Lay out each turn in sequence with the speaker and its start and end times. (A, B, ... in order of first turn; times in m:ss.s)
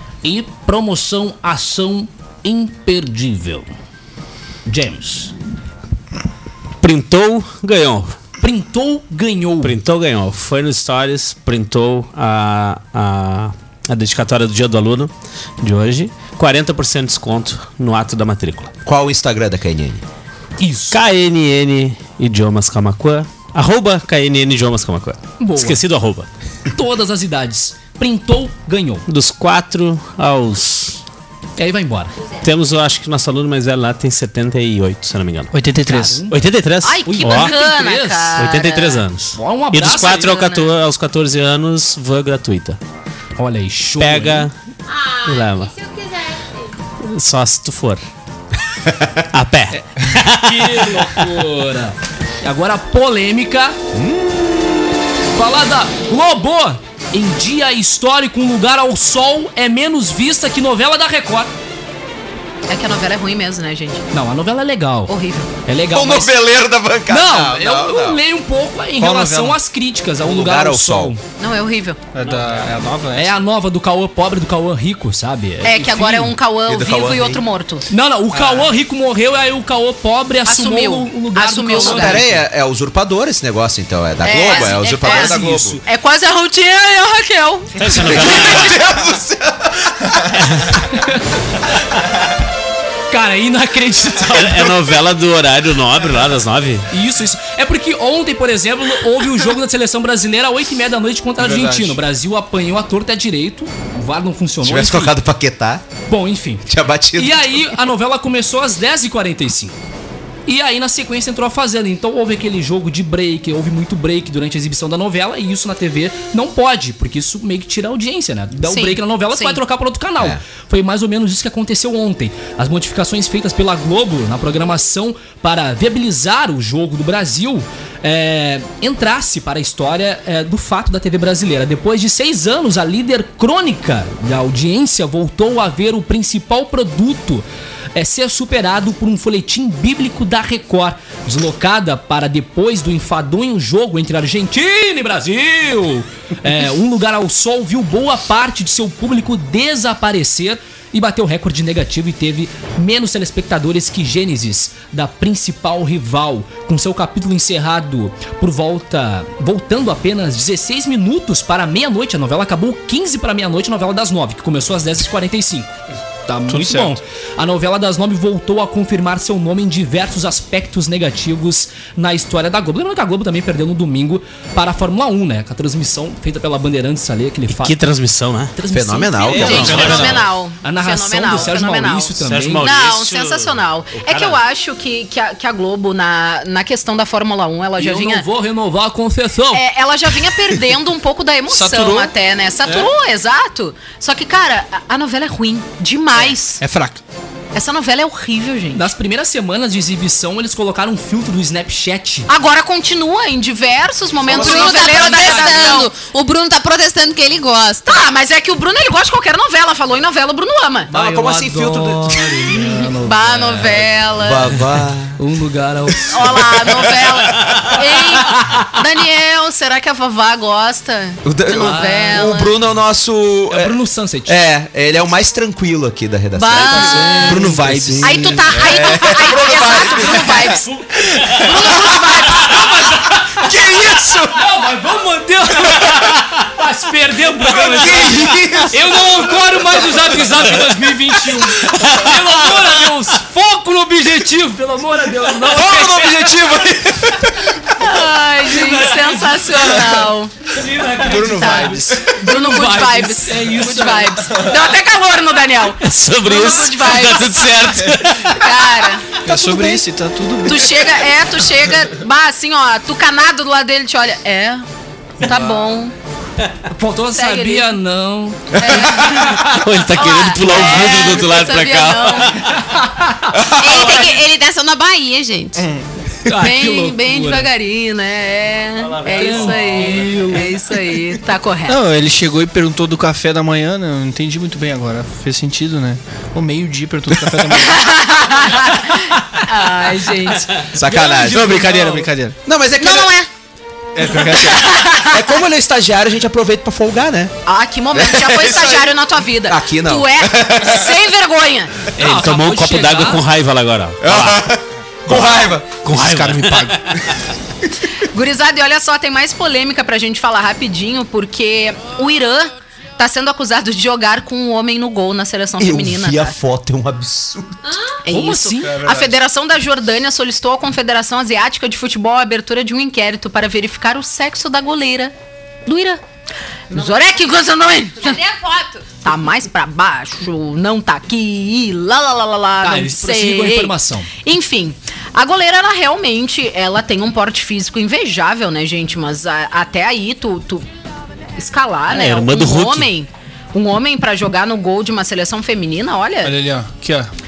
0:00.2-0:03.7 A
0:04.6-0:05.3 A
0:06.8-0:08.2 B
0:08.4-0:09.7 A
0:09.6-0:18.7 B
0:18.8-0:20.0 C
0:20.6-0:21.0 A
0:20.9-0:26.3 B
0:25.4-0:25.8 A
0:26.7-0:29.0 A
0:29.1-0:31.0 B
0:31.6-0:32.2 A
0:32.4-0:35.6 B
0:35.5-0:36.2 D
0:35.8-0:36.4 A
0:36.3-0:37.5 B
0:36.8-0:39.0 E
0:37.0-0:38.4 A
0:38.4-0:42.8 B
0:39.3-0:40.5 A
0:40.1-0:40.7 E
0:43.4-0:44.5 A
0:44.0-0:44.5 B
0:44.9-0:46.7 F
0:45.2-0:45.7 B
0:47.0-0:48.0 B
0:49.3-0:50.9 B
0:50.4-0:53.8 A
0:53.9-0:54.8 C
0:55.3-1:01.5 A
1:02.7-1:04.0 E
1:04.1-1:05.1 A
1:05.1-1:05.5 E
1:05.6-1:06.4 A
1:05.9-1:08.2 C
1:07.1-1:11.2 A
1:09.0-1:09.6 D
1:10.2-1:11.1 C
1:11.4-1:12.0 E
1:12.1-1:13.4 D
1:13.1-1:16.4 A
1:15.6-1:17.8 E
1:16.7-1:17.4 C
1:17.9-1:22.3 A
1:18.3-1:18.7 D
1:20.4-1:22.3 E
1:21.7-1:25.8 C
1:24.2-1:27.8 E
1:24.4-1:25.8 A
1:27.8-1:28.8 B
1:28.0-1:30.4 C
1:30.9-1:31.2 A
1:33.1-1:34.8 A
1:34.3-1:36.9 B
1:36.9-1:45.2 A
1:41.4-1:42.0 D
1:44.6-1:45.8 C
1:46.1-1:49.8 A
1:46.6-1:47.6 C
1:50.5-2:45.7 A
1:58.6-1:59.6 E
2:46.3-2:57.8 A
2:46.5-2:47.0 D
2:57.5-2:58.5 B
2:58.5-3:02.7 A
2:58.7-3:00.2 C
2:59.3-3:00.2 B
2:59.3-3:08.2 E
3:02.2-3:04.4 B
3:07.8-3:09.6 A
3:09.5-3:16.6 E
3:11.5-3:12.1 D
3:16.6-3:17.0 D
3:17.5-3:18.8 E
3:18.7-3:22.3 A
3:22.3-3:25.9 E
3:24.2-3:25.8 A
3:24.2-3:28.0 F
3:27.8-3:30.9 E
3:30.9-3:32.6 C
3:30.9-3:33.9 A
3:33.0-3:34.5 E
3:34.2-3:35.2 C
3:35.2-3:36.5 A
3:36.1-3:42.5 E
3:41.2-3:43.7 C
3:41.6-3:42.2 A
3:43.5-3:44.4 A
3:44.2-3:50.5 C
3:46.3-3:50.7 E
3:46.6-3:48.8 D
3:51.4-3:52.7 E
3:52.4-3:53.5 A
3:53.3-3:54.5 C
3:54.4-4:06.4 A
3:57.4-3:59.2 C
3:57.7-3:58.4 D
4:05.5-4:07.3 C
4:07.8-4:10.3 E
4:08.5-4:09.5 A
4:10.5-4:14.4 A
4:10.9-4:12.1 D
4:11.1-4:17.5 E
4:15.8-4:18.4 B
4:18.3-4:19.0 E
4:19.2-4:20.9 D
4:19.2-4:19.8 C
4:20.4-4:24.6 E
4:25.2-4:25.9 E
4:25.2-4:25.6 D
4:26.7-4:29.4 A
4:27.1-4:27.7 E
4:28.6-4:28.8 C
4:28.6-4:32.4 E
4:29.3-4:32.6 B
4:33.4-4:34.0 C
4:33.5-4:35.6 F
4:35.6-4:35.8 D
4:36.2-4:37.5 A
4:36.4-4:41.8 E
4:38.8-4:40.0 B
4:39.1-4:40.5 A
4:41.7-4:48.1 D
4:47.5-4:50.5 E
4:50.7-4:53.1 C
4:50.8-4:52.4 D
4:52.8-4:53.3 E
4:53.9-4:54.7 D
4:54.0-4:57.3 C
4:54.2-4:55.4 E
4:57.4-5:01.7 E
4:57.9-5:01.0 C
5:02.0-5:03.2 A
5:02.0-5:04.5 B
5:04.0-5:05.8 C
5:05.1-5:07.0 B
5:05.1-5:06.8 D
5:08.0-5:16.3 E
5:15.6-5:17.6 C
5:18.0-5:25.1 E
5:18.1-5:18.8 A
5:18.6-5:19.1 D
5:25.6-5:26.0 E
5:26.7-5:28.2 E
5:28.0-5:28.9 F
5:29.0-5:33.7 E
5:32.6-5:34.1 A
5:34.2-5:40.6 E
5:41.4-5:46.4 E
5:41.9-5:42.9 B
5:46.2-5:47.1 D